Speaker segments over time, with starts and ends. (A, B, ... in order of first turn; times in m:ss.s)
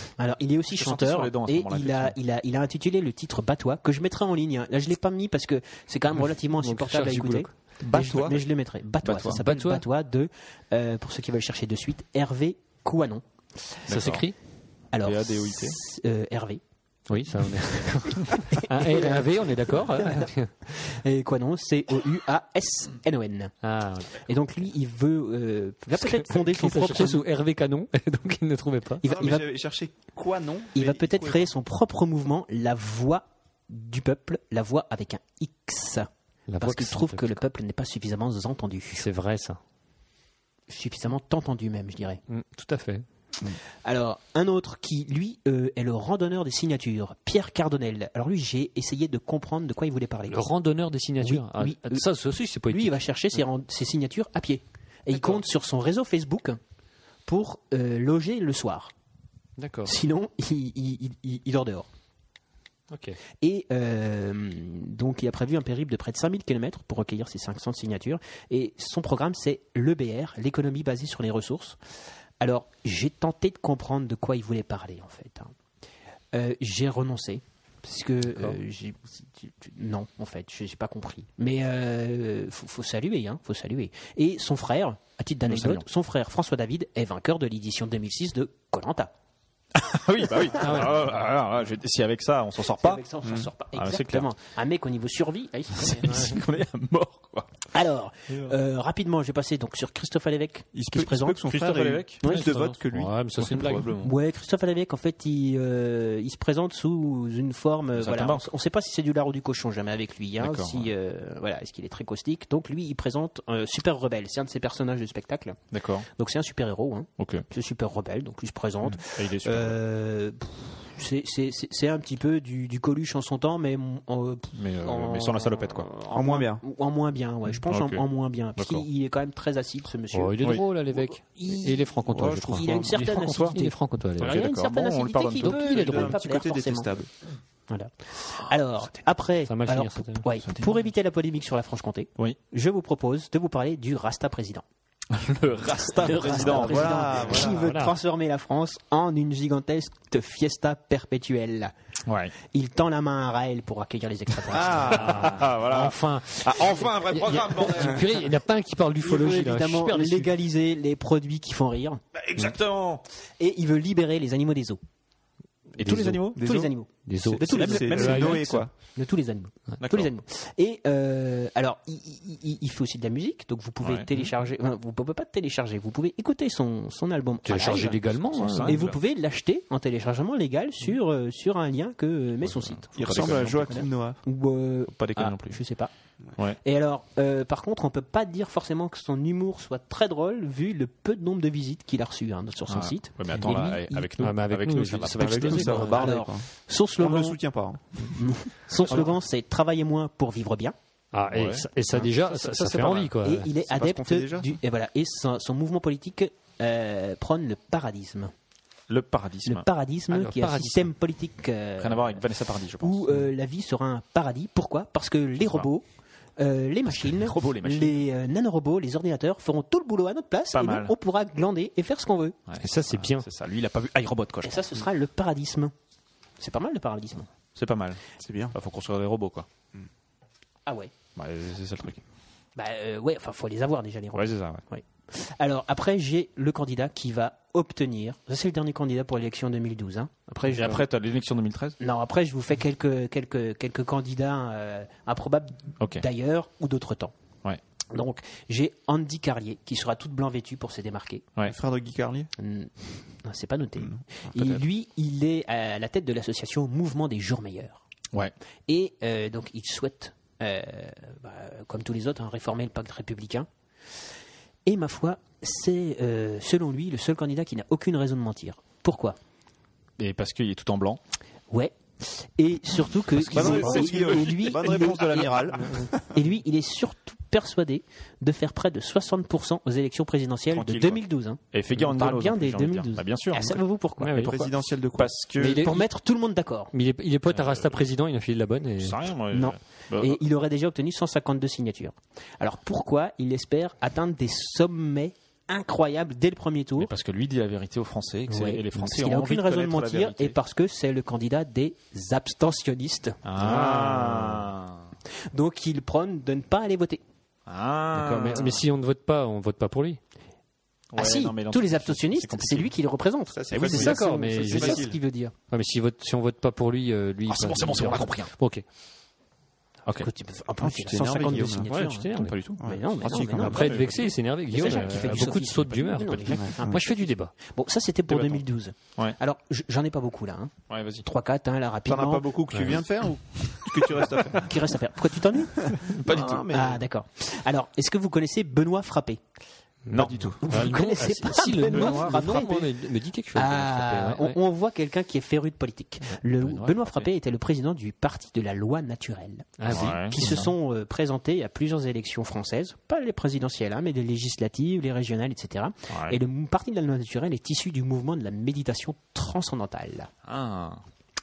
0:00.2-0:13.8 A
0:00.7-0:02.2 B
0:06.6-0:07.5 C
0:07.8-0:08.4 D
0:09.0-0:09.4 B
0:09.3-0:09.8 C
0:13.9-0:14.2 B
0:13.9-0:14.3 C
0:14.9-0:16.6 A
0:15.0-0:15.8 B
0:17.1-0:20.5 C
0:18.5-0:23.5 A
0:23.6-0:24.2 C
0:24.1-0:27.2 A
0:25.9-0:29.0 C
0:29.0-0:29.5 A
0:29.0-0:31.5 D
0:30.7-0:39.0 A
0:36.5-0:37.4 C
0:38.9-0:39.6 C
0:40.7-0:42.2 A
0:42.3-0:43.0 C
0:43.8-0:50.4 A
0:50.3-0:53.0 C
0:51.2-0:52.0 A
0:52.7-0:56.6 A
0:55.1-0:55.4 C
0:57.2-0:58.9 A
0:59.6-0:59.9 C
0:59.8-1:01.9 A
1:02.9-1:03.2 C
1:03.4-1:11.8 A
1:12.4-1:15.5 A
1:16.3-1:29.1 A
1:25.4-1:25.8 B
1:29.7-1:33.0 B
1:30.6-1:30.9 A
1:30.6-1:31.0 C
1:32.7-1:36.3 A
1:33.2-1:33.5 D
1:33.7-1:34.3 B
1:35.8-1:37.5 B
1:36.1-1:36.3 C
1:37.7-1:41.4 A
1:40.7-1:43.8 D
1:41.5-1:42.6 B
1:42.2-1:42.6 A
1:42.3-1:43.9 C
1:43.4-1:44.1 B
1:44.0-1:55.6 A
1:47.9-1:48.5 B
1:50.4-1:50.9 B
1:55.7-1:56.1 B
1:56.1-2:11.9 A
1:57.2-1:57.4 B
1:58.8-1:59.8 B
2:04.5-2:05.9 B
2:06.1-2:06.6 D
2:07.6-2:08.0 B
2:08.6-2:08.8 B
2:10.1-2:14.4 C
2:12.1-2:12.8 D
2:12.5-2:16.9 A
2:12.7-2:13.6 B
2:14.2-2:16.2 B
2:15.4-2:17.1 D
2:17.7-2:24.6 A
2:19.4-2:20.2 C
2:25.1-2:27.3 B
2:25.9-2:31.7 A
2:26.3-2:27.7 D
2:26.4-2:27.9 C
2:32.1-2:32.3 B
2:32.4-2:35.2 A
2:34.5-2:35.3 D
2:34.7-2:38.1 B
2:34.8-2:40.3 C
2:39.0-2:42.0 A
2:42.1-2:43.0 B
2:43.4-2:44.8 A
2:45.8-2:46.4 B
2:45.8-2:46.2 C
2:46.3-2:46.7 D
2:46.3-2:58.0 A
2:47.0-2:48.6 C
2:47.2-2:48.7 D
2:47.5-2:48.6 B
2:49.8-2:50.1 B
2:53.8-2:54.3 B
2:57.4-2:58.8 C
2:58.2-2:59.0 B
2:58.6-3:05.9 A
3:02.4-3:03.8 B
3:03.0-3:04.2 D
3:04.9-3:05.6 B
3:06.6-3:14.1 A
3:12.7-3:16.1 B
3:14.2-3:15.9 C
3:15.1-3:18.2 D
3:15.8-3:17.4 A
3:18.0-3:20.7 A
3:21.1-3:23.5 C
3:21.3-3:21.6 B
3:22.4-3:23.1 B
3:22.4-3:28.3 A
3:23.6-3:24.6 D
3:28.9-3:29.6 B
3:29.4-3:32.2 A
3:30.1-3:30.9 C
3:31.8-3:33.2 B
3:32.8-3:35.8 A
3:35.4-3:35.7 B
3:36.4-3:42.4 A
3:36.9-3:38.0 B
3:40.5-3:40.9 B
3:42.5-3:44.7 B
3:42.6-3:43.2 C
3:44.4-3:45.7 A
3:46.4-3:47.3 A
3:47.5-3:48.0 B
3:48.2-3:48.5 D
3:48.5-3:49.5 B
3:50.6-3:50.9 A
3:51.2-3:52.0 B
3:52.6-4:00.8 A
3:54.1-3:54.6 B
4:00.5-4:01.8 B
4:01.8-4:07.1 A
4:07.9-4:11.2 A
4:11.4-4:12.3 D
4:12.4-4:17.8 A
4:14.4-4:14.6 B
4:18.7-4:23.5 A
4:24.6-4:29.2 A
4:30.0-4:31.0 B
4:31.5-4:44.4 A
4:33.1-4:35.6 B
4:33.3-4:36.2 D
4:40.5-4:43.6 B
4:44.0-4:44.3 C
4:44.2-4:45.1 D
4:44.9-4:45.7 B
4:45.4-4:45.8 C
4:45.6-4:46.7 A
4:46.7-4:49.0 C
4:47.3-4:47.7 B
4:48.8-4:50.2 B
4:49.3-4:56.9 A
4:56.8-5:00.4 B
4:58.3-5:03.2 A
5:03.2-5:04.9 B
5:03.4-5:04.4 C
5:05.3-5:07.0 A
5:07.5-5:08.6 B
5:07.9-5:10.0 C
5:10.9-5:12.7 B
5:11.0-5:15.3 A
5:13.3-5:15.0 D
5:13.5-5:14.0 B
5:13.6-5:14.8 C
5:15.5-5:18.6 C
5:17.3-5:18.3 B
5:20.0-5:23.7 A
5:20.6-5:21.7 D
5:21.7-5:22.4 C
5:22.2-5:24.1 B
5:22.6-5:23.8 D
5:23.4-5:27.3 C
5:24.5-5:30.5 A
5:24.6-5:25.2 B
5:26.3-5:26.8 D
5:28.1-5:28.4 B
5:30.7-5:31.0 B
5:31.0-5:32.3 A
5:31.8-5:34.5 D
5:32.5-5:32.8 B
5:33.5-5:34.3 B
5:34.4-5:39.2 A
5:35.8-5:36.8 B
5:39.8-5:44.4 C
5:39.9-5:40.7 B
5:40.4-5:42.8 A
5:41.6-5:42.2 B
5:43.3-6:00.1 A
5:46.4-5:47.1 B
5:49.6-5:50.5 C
5:49.7-5:50.4 B
5:55.9-5:56.2 B
6:00.2-6:00.8 B